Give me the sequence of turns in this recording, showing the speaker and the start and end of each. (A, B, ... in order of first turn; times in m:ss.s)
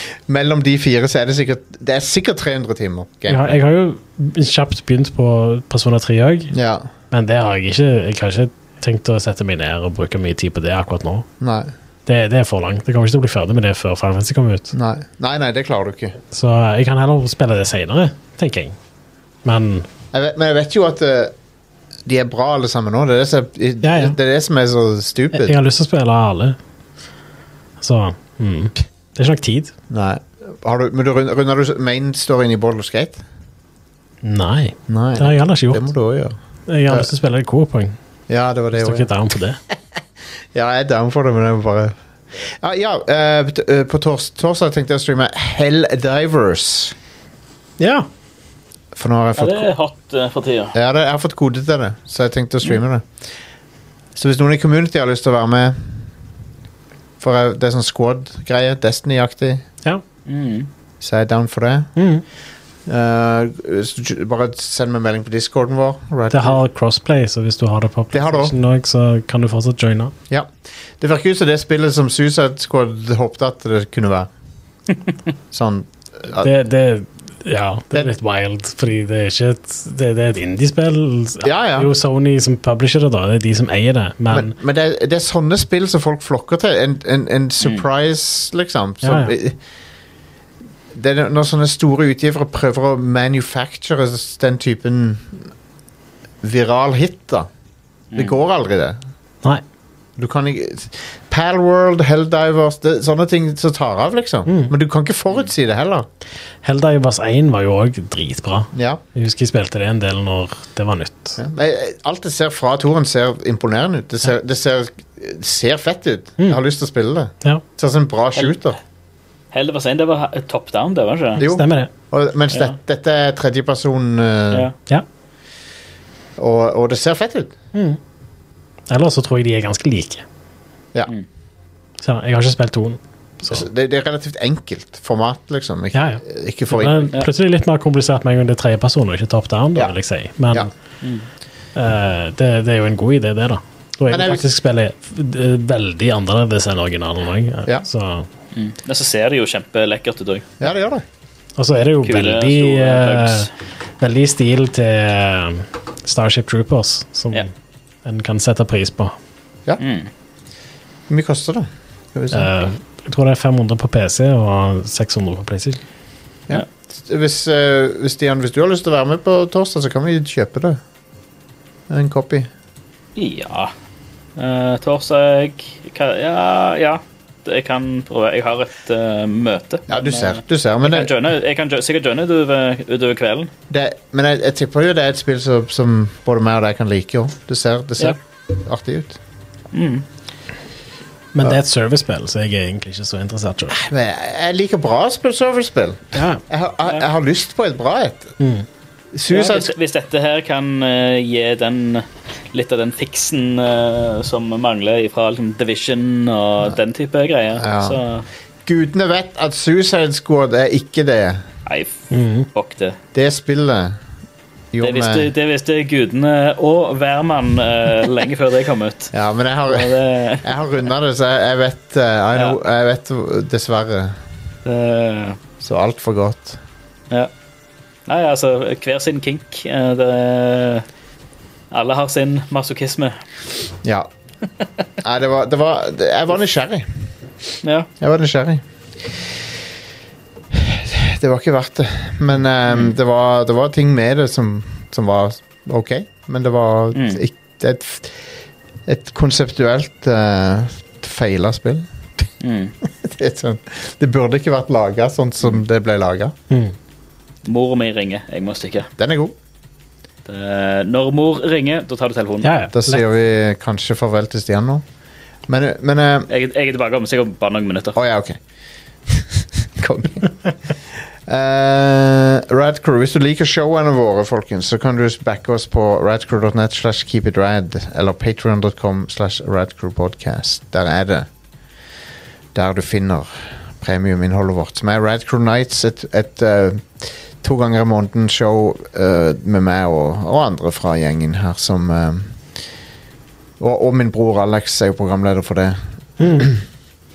0:00.3-0:03.6 A
0:03.3-0:06.5 B
0:06.5-0:06.9 A
0:07.1-0:11.2 B
0:11.4-0:11.7 A
0:12.0-0:14.7 B
0:14.7-0:16.2 A
0:16.3-0:18.8 B
0:19.4-0:19.9 B
0:20.1-0:21.3 A
0:22.0-0:25.5 A
0:23.8-0:24.2 B
0:25.3-0:26.6 B
0:27.8-0:29.7 B
0:29.9-0:33.2 A
0:34.2-0:35.8 B
0:34.9-0:36.4 A
0:36.7-0:38.0 B
0:38.3-0:39.1 A
0:38.7-0:39.6 B
0:40.5-0:46.9 A
0:47.8-0:48.1 B
0:48.9-0:49.7 A
0:49.4-0:50.8 C
0:50.7-0:53.1 A
0:54.2-0:56.0 A
0:57.2-0:59.6 A
1:00.3-1:00.7 C
1:01.0-1:01.9 A
1:02.0-1:02.2 B
1:02.8-1:06.6 A
1:06.3-1:10.1 B
1:08.1-1:08.5 A
1:10.3-1:14.3 A
1:15.5-1:16.5 A
1:16.4-1:24.5 B
1:21.4-1:21.9 A
1:24.3-1:29.6 A
1:27.6-1:27.8 C
1:29.0-1:29.3 B
1:30.9-1:35.5 A
1:36.4-1:37.5 A
1:38.1-1:38.4 C
1:38.1-1:39.0 A
1:40.2-1:46.1 A
1:44.5-1:44.7 B
1:46.6-1:51.4 B
1:48.7-1:49.0 A
1:51.4-1:58.8 A
1:59.5-2:01.4 C
2:01.4-2:04.7 A
2:01.4-2:01.9 B
2:02.5-2:02.8 C
2:06.4-2:07.5 A
2:07.7-2:08.0 B
2:08.9-2:10.2 B
2:12.0-2:13.7 B
2:13.5-2:17.1 A
2:15.9-2:20.7 B
2:21.0-2:21.3 C
2:21.7-2:28.3 B
2:24.1-2:24.5 A
2:28.5-2:30.5 C
2:30.6-2:31.0 A
2:31.6-2:33.5 B
2:32.0-2:33.5 C
2:34.0-2:37.5 B
2:38.0-2:39.1 B
2:39.8-2:40.1 C
2:41.1-2:42.5 A
2:42.3-2:45.8 B
2:46.5-2:50.8 A
2:51.9-2:52.5 A
2:53.2-2:53.7 C
2:54.4-3:03.5 C
2:59.9-3:01.1 A
3:03.7-3:09.2 A
3:09.7-3:10.0 C
3:11.3-3:13.8 B
3:13.7-3:18.4 A
3:16.1-3:16.4 B
3:18.4-3:18.6 B
3:19.1-3:19.7 A
3:19.3-3:28.2 C
3:27.6-3:28.0 A
3:28.6-3:31.4 A
3:31.6-3:33.0 C
3:32.1-3:32.5 B
3:33.1-3:34.0 A
3:34.7-3:35.3 A
3:34.8-3:39.1 C
3:39.1-3:44.2 A
3:39.7-3:40.5 C
3:44.6-3:45.4 C
3:45.6-3:46.6 A
3:48.1-3:50.8 C
3:51.7-3:53.2 C
3:53.8-3:54.1 A
3:55.0-3:56.9 A
3:57.6-3:57.9 C
3:58.0-3:58.6 A
4:00.5-4:08.3 A
4:02.7-4:02.9 C
4:06.9-4:07.2 C
4:08.8-4:12.3 A
4:12.4-4:12.7 C
4:12.8-4:16.3 A
4:16.5-4:16.7 B
4:17.4-4:18.9 C
4:19.0-4:19.3 A
4:20.2-4:22.5 C
4:22.4-4:23.0 B
4:22.7-4:24.8 A
4:25.5-4:26.3 A
4:26.3-4:28.0 C
4:27.9-4:28.4 A
4:29.1-4:30.7 A
4:31.2-4:41.3 A
4:42.5-4:52.4 A
4:53.6-4:56.6 A
4:56.2-4:56.5 B